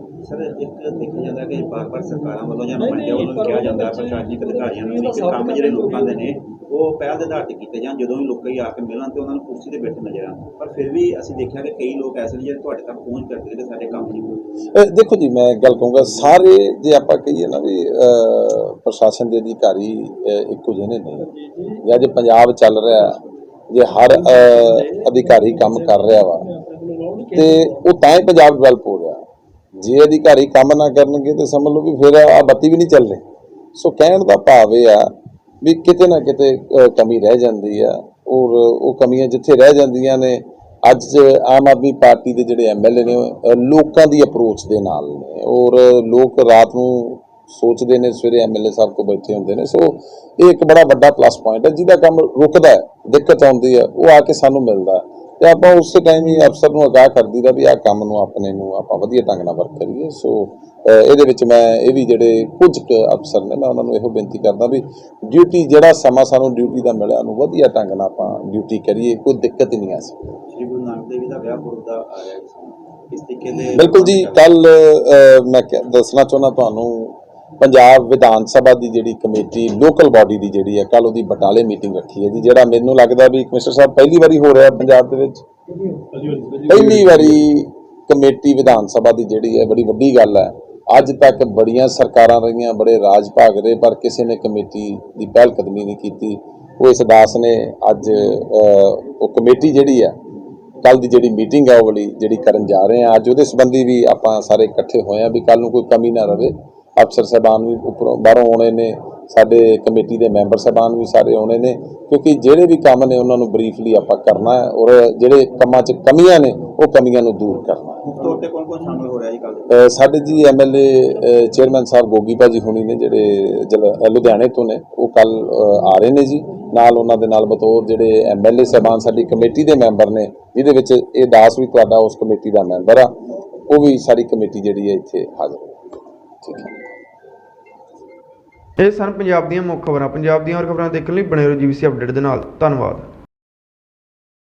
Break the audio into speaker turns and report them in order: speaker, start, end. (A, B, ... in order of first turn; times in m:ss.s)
0:00.2-0:14.4 A
0:14.7-0:26.5 B
0:27.3-0:29.2 B
0:29.8-0:33.2 B
0:33.7-1:10.2 B
1:10.5-1:14.4 A
1:13.7-1:25.4 B
1:26.6-1:40.2 B
1:40.8-1:58.1 B
1:58.0-1:59.7 A
1:59.7-2:15.9 B
2:16.4-2:16.8 B
2:18.8-2:23.1 C